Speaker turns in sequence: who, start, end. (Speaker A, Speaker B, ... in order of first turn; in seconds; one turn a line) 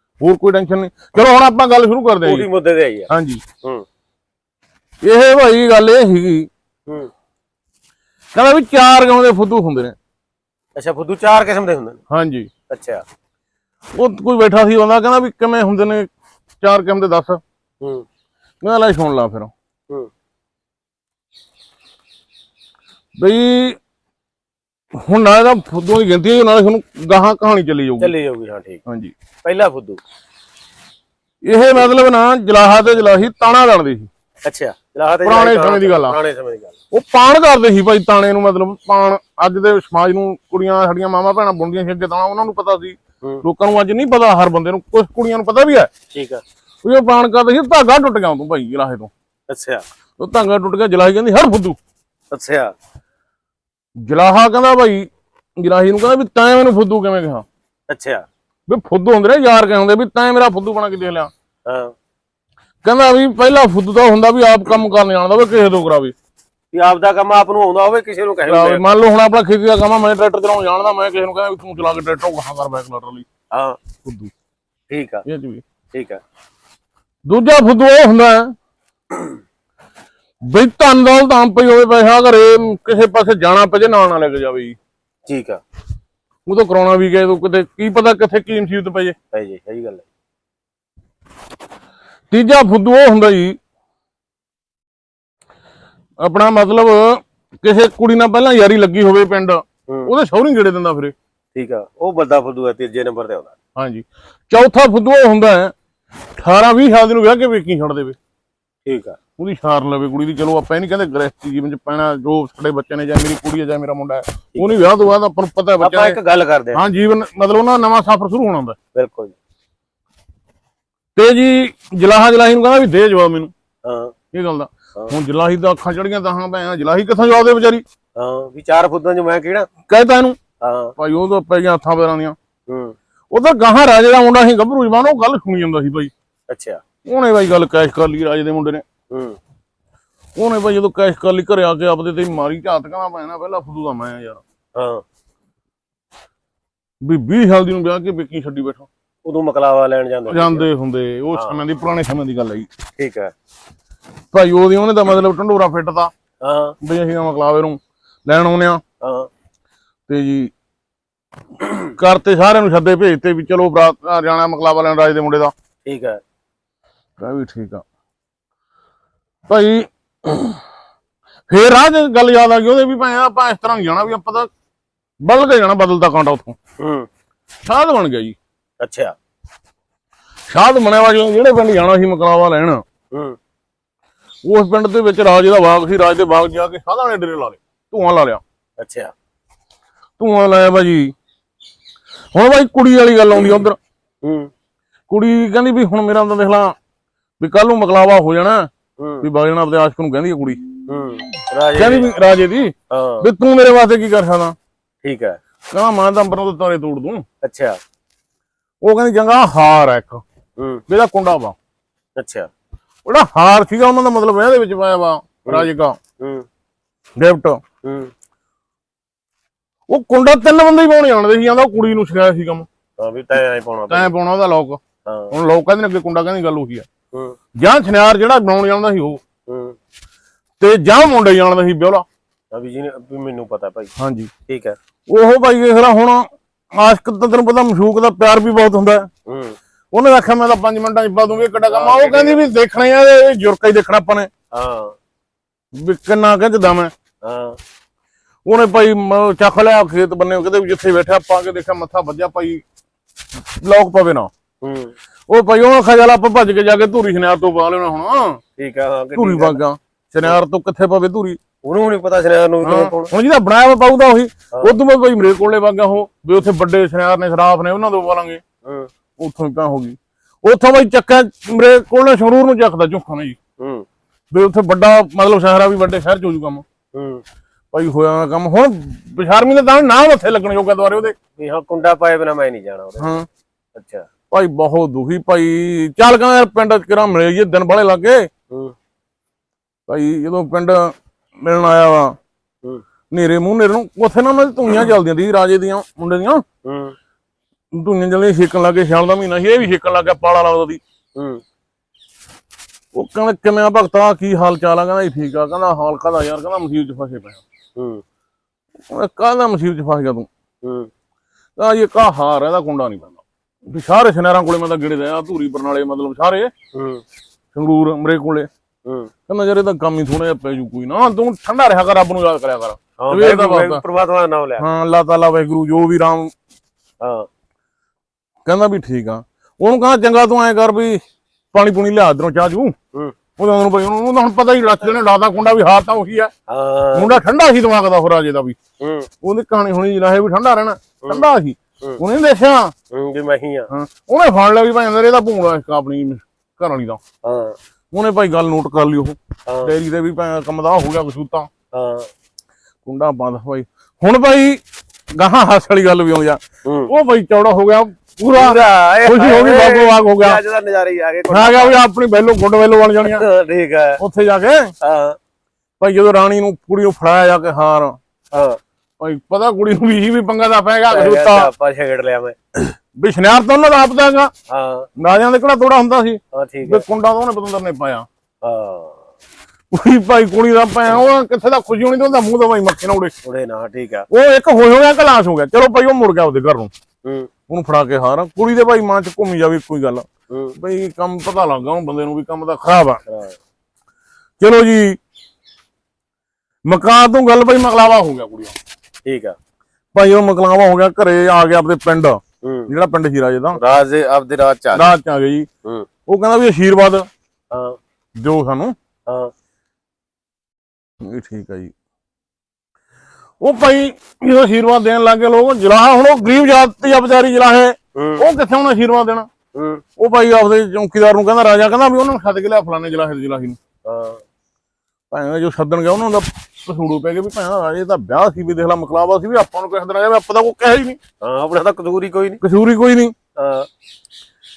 Speaker A: 0.2-2.5
Speaker B: 2.2-3.1
Speaker A: 3.1-3.4
Speaker A: 5.0-6.5
Speaker A: 8.3-9.9
Speaker B: 10.8-12.0
Speaker A: 12.1-12.5
Speaker B: 12.7-13.0
Speaker A: 13.9-16.1
Speaker A: 16.6-17.4
Speaker A: 18.6-19.5
Speaker A: 23.2-23.8
Speaker A: 25.0-28.1
Speaker B: 28.0-28.8
Speaker A: 28.9-29.1
Speaker B: 29.4-30.0
Speaker A: 31.4-34.1
Speaker B: 34.4-36.7
Speaker A: 35.2-36.2
Speaker A: 36.9-45.9
Speaker B: 46.1-46.4
Speaker A: 46.8-49.1
Speaker B: 49.5-49.8
Speaker A: 50.2-51.8
Speaker B: 52.3-52.7
Speaker A: 54.0-57.4
Speaker B: 57.9-58.2
Speaker A: 58.7-61.3
Speaker B: 61.6-61.9
Speaker A: 62.8-66.1
Speaker B: 66.7-68.8
Speaker A: 68.5-73.3
Speaker B: 73.5-73.8
Speaker A: 74.0-74.3
Speaker B: 74.9-75.2
Speaker A: 75.2-75.6
Speaker B: 75.9-76.2
Speaker A: 77.2-78.5
Speaker A: 80.5-84.8
Speaker B: 85.3-85.6
Speaker A: 86.5-89.1
Speaker B: 89.3-90.0
Speaker A: 92.3-93.6
Speaker A: 96.2-101.1
Speaker B: 101.5-103.5
Speaker A: 103.8-105.7
Speaker A: 106.4-108.2
Speaker B: 108.8-109.2
Speaker A: 109.4-116.2
Speaker B: 114.5-114.9
Speaker B: 115.8-116.8
Speaker A: 116.7-118.8
Speaker B: 118.9-119.3
Speaker A: 121.1-123.5
Speaker B: 123.8-124.1
Speaker A: 124.3-127.8
Speaker B: 128.2-129.7
Speaker A: 129.9-130.4
Speaker B: 130.6-130.9
Speaker A: 131.0-132.3
Speaker B: 132.7-132.9
Speaker A: 133.3-136.1
Speaker B: 136.5-136.8
Speaker A: 137.0-138.8
Speaker B: 139.1-139.4
Speaker A: 140.3-144.4
Speaker B: 144.8-145.0
Speaker A: 147.0-148.9
Speaker B: 149.2-150.7
Speaker A: 150.3-152.7
Speaker B: 151.3-151.6
Speaker B: 153.0-153.3
Speaker A: 154.3-156.1
Speaker B: 156.4-156.8
Speaker A: 156.8-158.8
Speaker B: 159.0-159.3
Speaker A: 160.1-160.5
Speaker A: 161.8-165.5
Speaker B: 165.8-166.2
Speaker A: 167.2-167.8
Speaker A: 169.5-170.6
Speaker A: 171.5-174.5
Speaker A: 175.2-176.6
Speaker B: 176.8-177.1
Speaker A: 177.6-178.3
Speaker B: 178.8-179.1
Speaker A: 180.5-182.8
Speaker B: 183.1-183.4
Speaker A: 184.4-188.4
Speaker B: 188.8-189.1
Speaker A: 190.2-191.1
Speaker A: 192.3-193.8
Speaker B: 194.2-194.5
Speaker A: 195.1-196.7
Speaker A: 197.4-198.7
Speaker B: 199.0-199.2
Speaker A: 199.2-200.6
Speaker B: 200.9-202.1
Speaker A: 201.7-204.5
Speaker B: 202.9-203.3
Speaker B: 205.0-205.4
Speaker A: 205.7-207.2
Speaker B: 207.4-207.8
Speaker A: 208.8-210.2
Speaker B: 210.6-210.8
Speaker A: 210.9-211.5
Speaker B: 212.2-212.5
Speaker A: 213.1-216.0
Speaker B: 216.2-216.4
Speaker A: 217.2-217.6
Speaker B: 217.8-218.1
Speaker A: 219.9-222.7
Speaker B: 223.0-224.1
Speaker A: 223.9-224.8
Speaker B: 225.1-225.3
Speaker A: 225.3-226.8
Speaker A: 227.6-229.2
Speaker B: 229.5-229.8
Speaker A: 230.6-232.0
Speaker B: 232.5-233.9
Speaker A: 234.0-234.3
Speaker B: 234.5-234.8
Speaker A: 235.1-239.1
Speaker B: 239.3-239.6
Speaker A: 239.9-244.3
Speaker B: 241.7-242.4
Speaker B: 244.5-244.9
Speaker A: 245.7-246.9
Speaker B: 247.2-247.6
Speaker A: 248.4-252.6
Speaker A: 253.5-254.3
Speaker B: 254.6-254.9
Speaker A: 255.3-258.4
Speaker B: 258.6-259.6
Speaker A: 259.1-261.4
Speaker B: 261.6-263.1
Speaker A: 262.6-268.4
Speaker A: 269.2-273.4
Speaker B: 273.6-273.9
Speaker A: 274.3-276.6
Speaker B: 276.9-277.2
Speaker A: 277.7-281.1
Speaker B: 281.4-283.1
Speaker A: 283.0-283.2
Speaker B: 283.8-284.1
Speaker A: 284.3-288.3
Speaker A: 289.9-292.1
Speaker A: 293.1-296.4
Speaker B: 296.6-296.9
Speaker A: 297.7-300.8
Speaker B: 301.1-301.4
Speaker A: 302.9-307.4
Speaker B: 307.8-308.0
Speaker A: 308.9-310.3
Speaker B: 310.6-310.9
Speaker A: 311.6-316.5
Speaker B: 316.7-317.0
Speaker A: 317.5-318.5
Speaker B: 318.9-319.1
Speaker A: 319.3-323.8
Speaker B: 323.0-324.7
Speaker A: 324.6-326.3
Speaker B: 327.0-327.3
Speaker A: 328.4-331.0
Speaker A: 331.5-332.7
Speaker A: 333.4-336.3
Speaker B: 336.5-337.2
Speaker A: 336.9-338.6
Speaker B: 338.8-339.1
Speaker A: 339.2-342.7
Speaker B: 342.9-343.7
Speaker A: 343.7-347.0
Speaker B: 347.2-347.6
Speaker A: 347.9-351.5
Speaker B: 349.5-349.7
Speaker B: 351.7-352.1
Speaker A: 352.8-354.6
Speaker A: 355.1-360.4
Speaker B: 356.6-356.9
Speaker B: 358.3-361.8
Speaker A: 361.3-363.2
Speaker B: 363.0-364.0
Speaker A: 364.0-364.7
Speaker B: 364.8-365.2
Speaker A: 365.8-368.0
Speaker B: 368.3-368.6
Speaker A: 369.0-371.5
Speaker B: 370.9-372.4
Speaker A: 372.9-374.3
Speaker B: 374.5-374.9
Speaker A: 375.0-378.1
Speaker B: 376.3-376.8
Speaker B: 378.4-379.0
Speaker A: 379.7-383.1
Speaker B: 383.2-384.1
Speaker A: 384.1-386.7
Speaker A: 387.5-390.1
Speaker B: 390.3-390.6
Speaker A: 390.6-393.0
Speaker B: 393.1-393.3
Speaker A: 394.4-395.0
Speaker A: 396.6-398.5
Speaker B: 399.1-399.4
Speaker A: 399.9-403.6
Speaker B: 402.4-402.7
Speaker B: 403.5-404.9
Speaker A: 404.8-405.5
Speaker A: 406.1-407.1
Speaker B: 407.5-407.8
Speaker A: 408.2-408.7
Speaker A: 411.0-411.7
Speaker A: 413.4-419.3
Speaker B: 417.9-418.2
Speaker B: 419.5-419.8
Speaker A: 420.0-423.6
Speaker B: 423.9-424.2
Speaker A: 425.1-431.0
Speaker B: 431.2-432.4
Speaker A: 432.4-433.1
Speaker B: 433.4-433.7